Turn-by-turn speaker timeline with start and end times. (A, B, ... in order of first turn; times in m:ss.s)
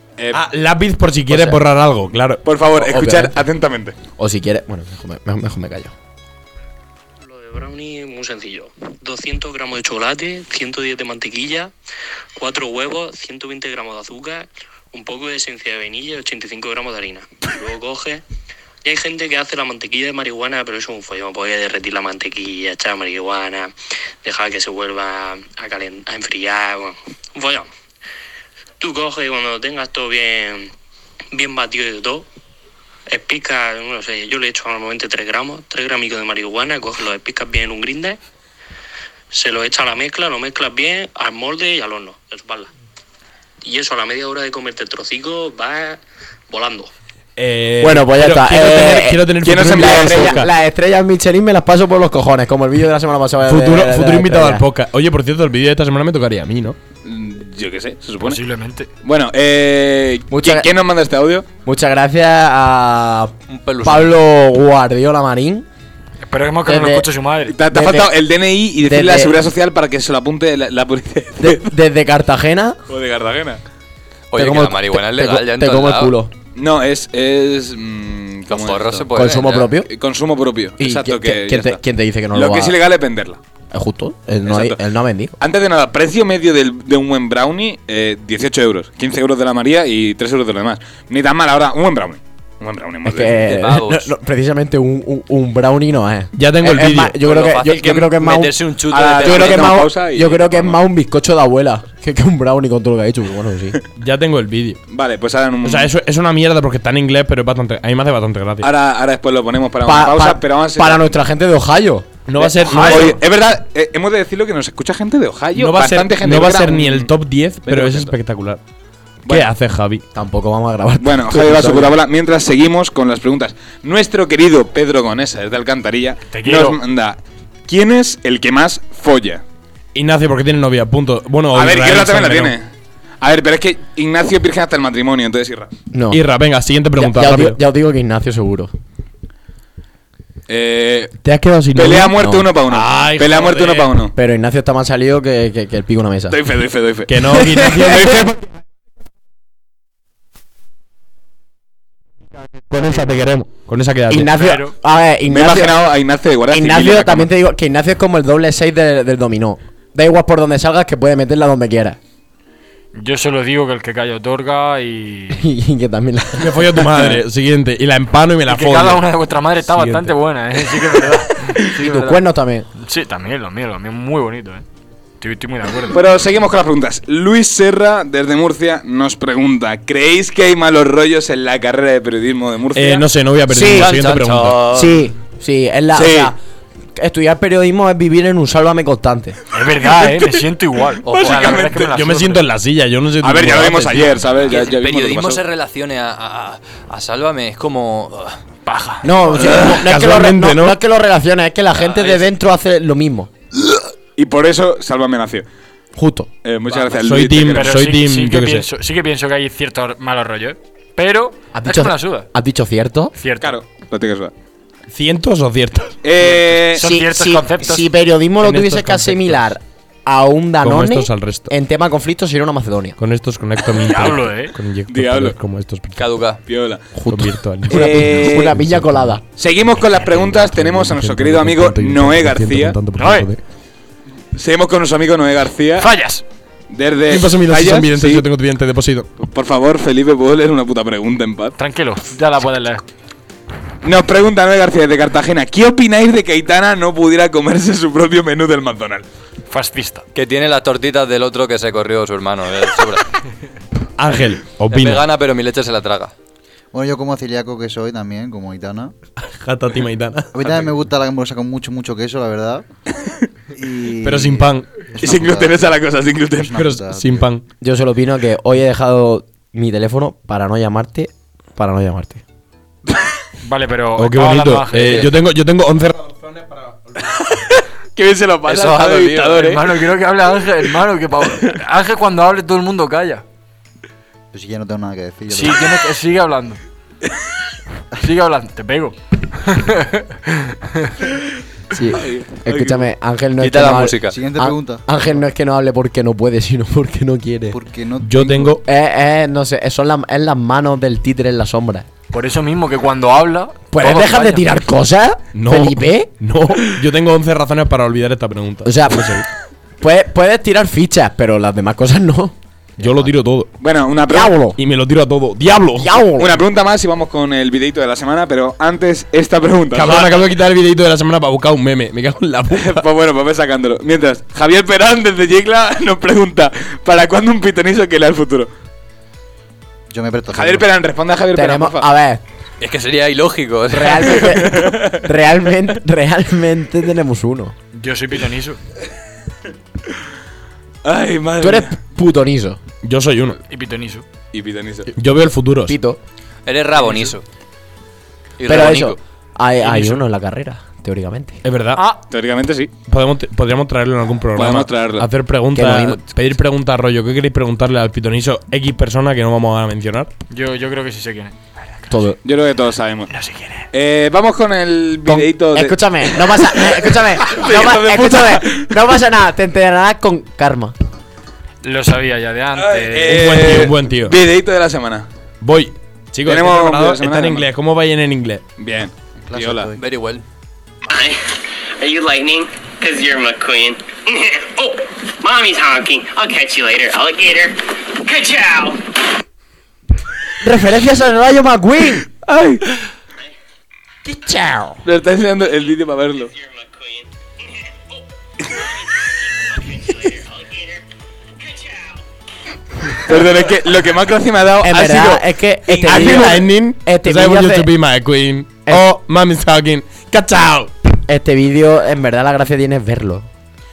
0:00.3-0:02.4 A
0:01.3-0:01.6 B
0:02.4-0:04.0 C
0:02.8-0:03.4 B
0:04.2-0:05.9 B
0:07.2-0:11.7 D
0:12.4-0:18.2 D
0:18.8-0:27.7 D
0:28.8-0:30.7 D
0:31.3-0:32.2 D
0:33.1-0:38.2 D
0:39.3-0:42.7 D
0:43.6-0:46.9 D
0:47.4-0:50.5 A
0:47.8-0:54.6 B
0:49.4-0:50.4 C
0:53.4-0:56.8 A
0:57.0-0:58.4 C
0:58.2-0:58.9 E
0:59.0-1:01.4 C
1:00.3-1:00.7 B
1:01.6-1:05.7 B
1:03.5-1:04.2 F
1:06.2-1:07.6 E
1:06.6-1:07.1 B
1:07.5-1:11.6 C
1:07.7-1:08.1 B
1:08.8-1:09.4 B
1:11.4-1:12.8 B
1:12.9-1:13.6 C
1:14.3-1:16.1 F
1:14.3-1:16.3 B
1:16.5-1:19.1 C
1:18.5-1:19.7 F
1:19.1-1:19.9 B
1:19.8-1:21.8 C
1:20.8-1:22.8 B
1:22.3-1:23.4 C
1:23.7-1:25.3 B
1:24.4-1:24.8 C
1:25.4-1:33.4 C
1:33.0-1:43.8 B
1:33.4-1:34.1 F
1:36.4-1:37.2 A
1:37.2-1:39.8 F
1:38.9-1:40.8 C
1:44.0-1:44.8 A
1:44.9-1:45.9 C
1:45.6-1:48.7 A
1:48.6-1:51.2 C
1:49.8-1:52.2 B
1:52.2-1:53.2 A
1:52.4-1:57.1 C
1:55.5-1:58.6 A
1:57.6-1:58.1 C
1:59.3-2:00.0 A
2:00.1-2:02.0 B
2:01.0-2:09.4 C
2:06.3-2:06.8 E
2:09.9-2:12.5 A
2:11.5-2:12.7 C
2:13.2-2:15.7 C
2:15.9-2:16.2 B
2:16.1-2:17.6 A
2:17.0-2:18.7 B
2:20.5-2:21.2 C
2:21.3-2:22.1 A
2:21.5-2:22.5 B
2:21.7-2:24.1 C
2:22.6-2:23.9 A
2:24.1-2:26.4 B
2:26.3-2:28.3 C
2:27.1-2:28.4 A
2:27.3-2:28.1 B
2:32.7-2:34.3 A
2:34.1-2:35.8 B
2:34.3-2:34.7 E
2:35.3-2:37.3 C
2:36.5-2:42.0 B
2:42.9-2:45.5 E
2:45.3-2:47.2 B
2:46.4-2:49.0 A
2:48.5-2:52.2 E
2:49.7-2:50.1 A
2:51.7-2:52.7 B
2:52.8-2:54.6 E
2:55.2-2:56.0 E
2:55.9-3:03.1 C
3:02.7-3:04.6 A
3:03.5-3:03.9 B
3:03.6-3:05.0 F
3:04.7-3:06.4 B
3:05.9-3:06.3 C
3:07.0-3:09.4 B
3:09.5-3:12.4 E
3:09.8-3:10.4 C
3:11.0-3:11.6 F
3:11.1-3:12.0 C
3:11.9-3:14.2 A
3:13.2-3:15.4 C
3:14.4-3:18.4 F
3:18.6-3:19.3 E
3:19.0-3:23.3 B
3:19.4-3:20.8 A
3:24.2-3:25.4 C
3:26.0-3:26.3 B
3:26.4-3:27.8 C
3:27.0-3:28.6 A
3:27.4-3:32.3 E
3:31.5-3:33.1 B
3:33.1-3:33.6 E
3:33.4-3:34.3 C
3:34.9-3:36.0 A
3:36.0-3:36.8 C
3:36.6-3:37.9 E
3:36.8-3:43.0 B
3:38.4-3:39.5 A
3:40.6-3:41.5 A
3:43.0-3:46.2 A
3:43.7-3:44.5 E
3:44.9-3:45.4 C
3:46.0-3:46.4 F
3:46.4-3:46.9 C
3:46.9-3:49.2 B
3:47.1-3:49.2 A
3:47.7-3:48.6 C
3:49.4-3:52.8 C
3:50.0-3:53.4 A
3:53.0-3:53.3 E
3:54.3-3:55.9 C
3:55.8-3:56.2 E
3:56.7-3:58.2 C
3:57.1-3:59.1 A
3:59.2-4:01.6 C
4:01.6-4:02.8 E
4:03.8-4:09.0 C
4:09.5-4:10.0 E
4:10.1-4:13.2 F
4:14.0-4:15.0 A
4:14.7-4:16.1 F
4:16.7-4:18.9 G
4:19.2-4:20.3 A
4:20.3-4:22.6 G
4:23.5-4:27.3 G
4:24.0-4:24.9 A
4:25.0-4:26.6 C
4:26.6-4:27.4 A
4:27.6-4:32.2 B
4:33.4-4:35.2 E
4:34.0-4:37.0 A
4:37.1-4:39.6 C
4:38.4-4:39.6 F
4:39.3-4:43.2 E
4:44.3-4:45.8 G
4:45.3-4:46.6 E
4:48.0-4:51.0 E
4:51.7-4:57.6 B
4:51.9-4:52.8 C
4:53.4-4:54.2 F
4:54.0-4:54.8 G
4:57.5-4:58.5 G
4:58.0-4:58.6 A
4:58.6-5:01.9 B
5:02.1-5:04.6 E
5:03.7-5:06.7 B
5:05.3-5:09.2 A
5:08.6-5:09.2 B
5:09.8-5:12.9 B
5:12.8-5:13.5 A
5:13.6-5:14.4 C
5:14.1-5:14.6 B
5:14.6-5:16.0 A
5:15.8-5:16.4 B
5:16.2-5:20.3 C
5:19.7-5:22.8 A
5:22.5-5:28.5 C
5:29.9-5:30.7 G
5:30.3-5:31.9 C
5:31.3-5:32.2 B
5:32.6-5:34.4 F
5:33.7-5:37.5 B
5:34.3-5:35.0 C
5:37.7-5:38.6 E
5:40.8-5:41.7 C
5:41.4-5:42.6 B
5:42.8-5:43.4 A
5:43.5-5:44.0 E
5:44.3-5:44.9 C
5:45.0-5:45.8 A
5:45.7-5:46.0 B
5:46.4-5:47.2 F
5:46.8-5:47.1 C
5:48.4-5:49.0 F
5:48.5-5:51.4 B
5:49.7-5:49.9 E
5:51.4-5:51.8 A
5:51.7-5:52.0 E
5:52.1-5:52.7 C
5:52.9-6:00.1 A
5:54.3-5:55.1 C
5:55.5-5:56.0 B
6:00.3-6:01.4 E
6:01.9-6:02.2 B
6:02.2-6:03.1 C
6:03.1-6:03.7 E
6:03.7-6:08.7 C
6:05.0-6:10.7 B
6:11.6-6:13.4 E
6:12.6-6:15.1 C
6:13.1-6:14.2 A
6:15.4-6:18.4 A
6:16.2-6:17.5 C
6:18.6-6:19.7 C
6:19.3-6:19.8 G
6:19.8-6:20.2 F
6:20.9-6:21.2 H
6:21.8-6:28.8 H
6:30.4-6:32.0 B
6:32.2-6:32.6 C
6:34.0-6:34.8 B
6:34.8-6:36.3 C
6:36.2-6:40.8 H
6:41.4-6:42.0 H
6:43.0-6:46.4 C
6:44.6-6:47.7 B
6:45.8-6:50.7 A
6:48.6-6:48.9 B
6:51.1-6:53.3 B